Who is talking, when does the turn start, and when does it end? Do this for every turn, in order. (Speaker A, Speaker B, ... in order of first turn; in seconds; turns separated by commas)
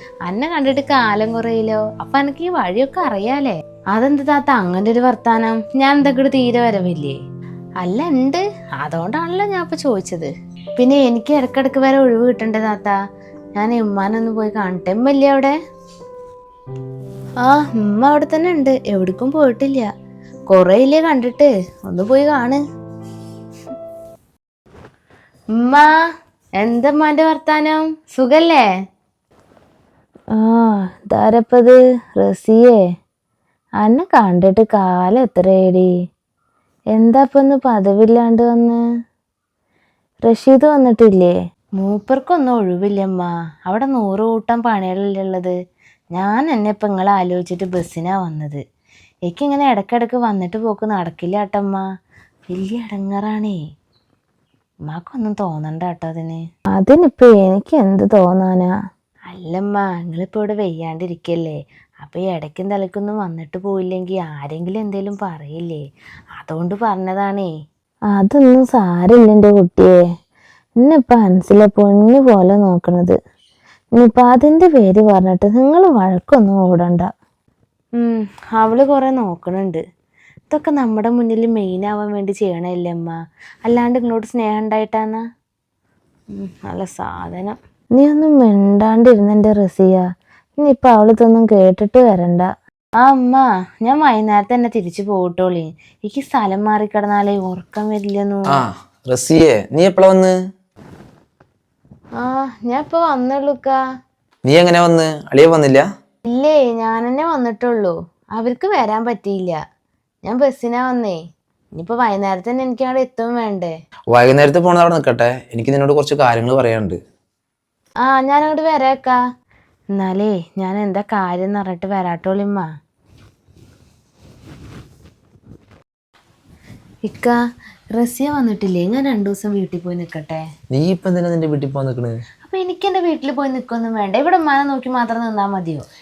Speaker A: 0.2-7.2, Speaker A: 7.8-13.0, Speaker A: 13.6-15.5, Speaker A: 17.4-19.9, Speaker A: 20.5-22.6, Speaker A: 25.5-25.9, Speaker A: 26.6-28.6, Speaker A: 30.3-32.8, Speaker A: 33.8-35.9, Speaker A: 36.9-38.8, Speaker A: 40.2-45.5, Speaker A: 46.1-48.6, Speaker A: 49.3-51.8, Speaker A: 52.5-53.6, Speaker A: 54.9-58.7, Speaker A: 59.3-65.8, Speaker A: 66.4-67.5, Speaker A: 68.1-70.0, Speaker A: 70.8-73.2, Speaker A: 74.0-77.1, Speaker A: 78.0-79.8, Speaker A: 80.5-85.2, Speaker A: 86.3-90.0, Speaker A: 90.6-92.5, Speaker A: 93.0-98.6, Speaker B: 98.5-100.3, Speaker A: 102.2-103.8, Speaker B: 104.4-105.8, Speaker A: 106.3-109.6, Speaker A: 110.2-111.2, Speaker A: 111.7-113.7, Speaker B: 114.1-117.0, Speaker A: 118.0-119.2, Speaker A: 119.9-122.7, Speaker A: 127.0-127.4, Speaker A: 127.9-130.4, Speaker B: 130.7-132.2, Speaker A: 132.4-135.8